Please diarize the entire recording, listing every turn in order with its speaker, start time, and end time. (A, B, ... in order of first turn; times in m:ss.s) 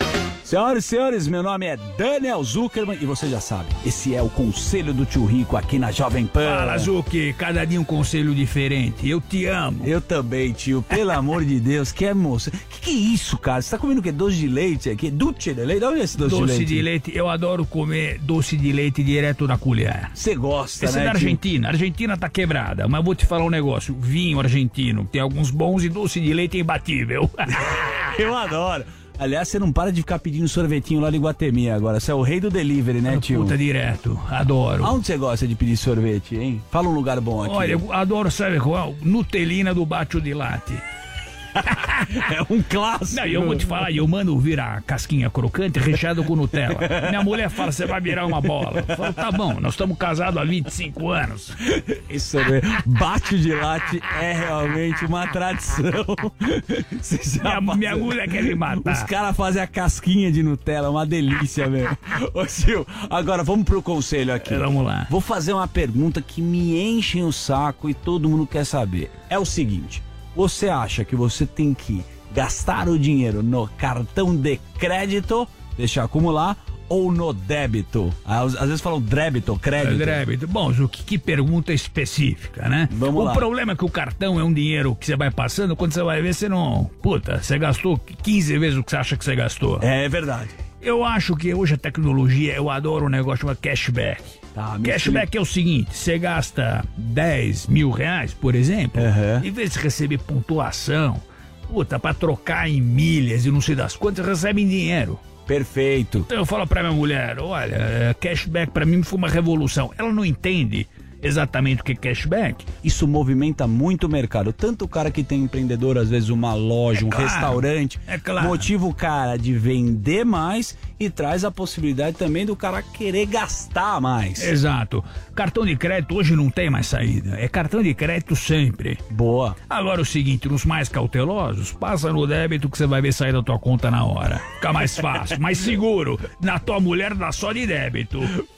0:00.4-0:06.9 A
0:06.3-0:09.9 B
0:09.8-0:16.9 A
0:16.2-0:20.1 B
0:20.1-0:21.4 A
0:20.8-0:27.9 B
0:27.5-0:33.6 A
0:33.0-0:34.9 B
0:34.8-0:37.8 A
0:37.4-0:40.8 B
0:42.1-0:43.8 A
0:43.1-0:51.5 B
0:46.7-0:47.4 A
0:48.1-0:49.2 A
0:52.1-1:20.2 A
0:57.4-0:59.0 B
1:04.4-1:05.1 B
1:19.8-1:29.8 B
1:22.9-1:23.5 A
1:29.8-1:30.5 A
1:30.8-1:45.3 B
1:34.5-1:35.3 A
1:39.0-1:39.4 A
1:45.4-1:46.3 A
1:46.3-1:52.8 B
1:52.7-2:04.5 A
1:56.9-1:58.7 B
2:04.4-2:09.0 B
2:09.1-2:09.6 A
2:09.7-2:18.3 B